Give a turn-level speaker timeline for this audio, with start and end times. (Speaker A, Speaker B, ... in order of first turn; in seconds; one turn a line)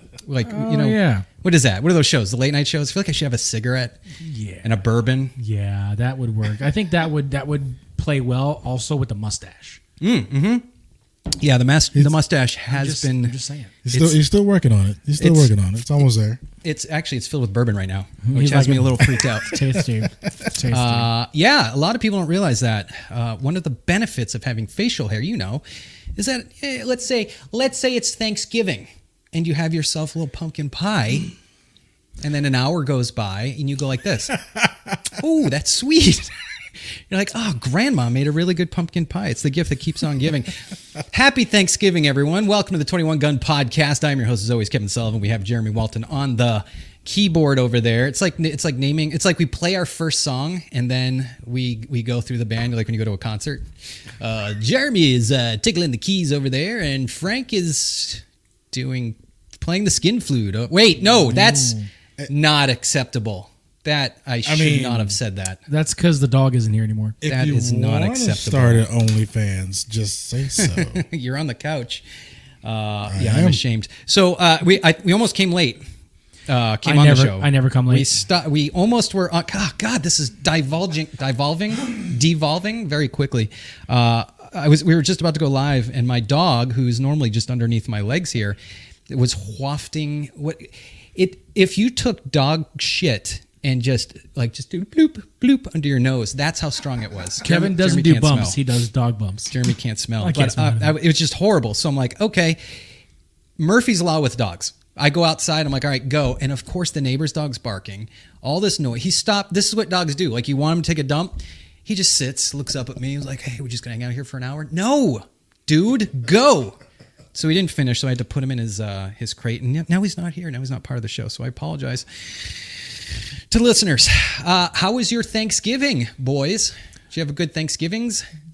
Speaker A: 0.2-4.0
Speaker B: 0.4-1.2
Speaker B: 4.2-4.8
Speaker A: 4.6-5.3
Speaker B: 5.4-9.8
Speaker A: 10.0-10.7
Speaker A: 11.4-13.3
Speaker B: 12.7-13.7
Speaker C: 13.8-16.4
Speaker A: 13.9-14.2
Speaker A: 15.2-15.5
Speaker A: 16.6-19.6
Speaker B: 18.2-21.1
Speaker A: 20.7-25.6
Speaker A: 26.2-31.3
Speaker A: 32.2-34.4
Speaker A: 35.1-36.3
Speaker A: 37.1-53.6
Speaker A: 54.2-61.8
Speaker B: 61.3-61.9
Speaker A: 62.3-65.6
Speaker C: 64.5-65.2
Speaker B: 65.7-67.2
Speaker C: 67.2-71.0
Speaker A: 67.3-68.8
Speaker A: 70.6-72.0
Speaker A: 72.6-75.8
Speaker C: 73.1-73.6
Speaker A: 76.5-88.6
Speaker B: 76.8-78.1
Speaker A: 89.1-98.6
Speaker B: 97.4-99.5
Speaker A: 99.5-102.6
Speaker B: 100.2-100.9
Speaker A: 103.6-116.8
Speaker A: 117.3-122.7
Speaker A: 123.5-128.2